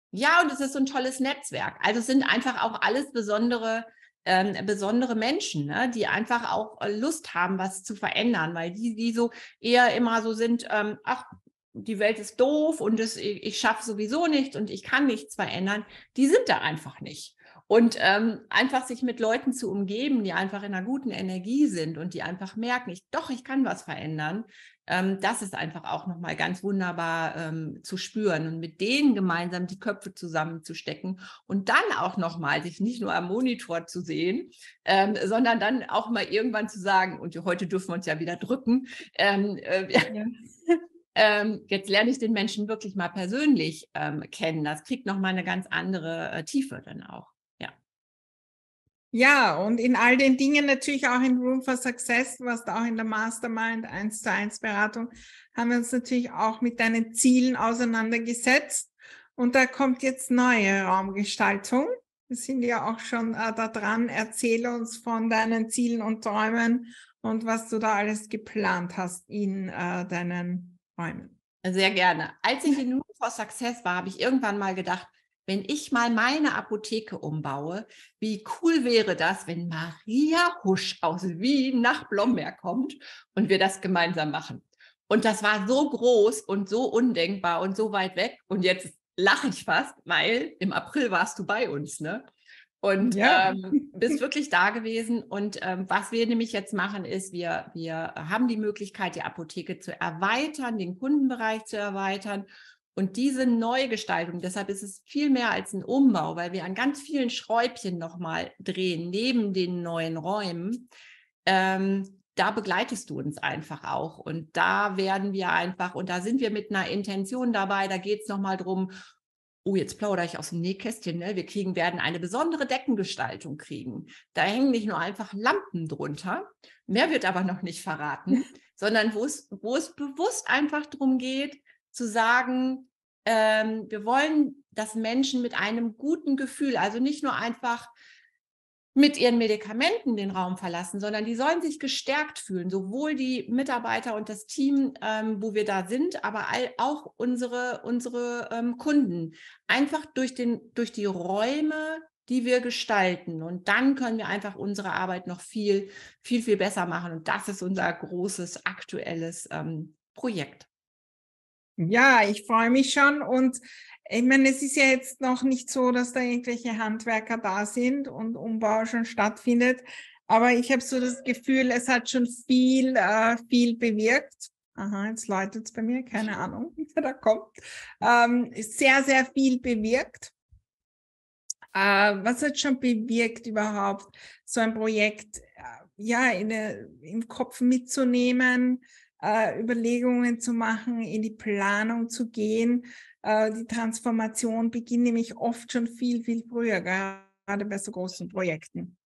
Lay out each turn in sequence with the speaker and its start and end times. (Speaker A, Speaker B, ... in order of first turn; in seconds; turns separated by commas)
Speaker A: 0.1-40.1, Speaker B: 40.1-40.8, Speaker A: 41.1-47.7, Speaker B: 49.1-71.3, Speaker A: 71.6-92.2, Speaker A: 92.8-110.9, Speaker B: 93.0-94.0, Speaker A: 111.5-118.9, Speaker A: 119.6-137.9, Speaker A: 138.9-160.7, Speaker B: 161.8-180.3, Speaker B: 181.7-198.9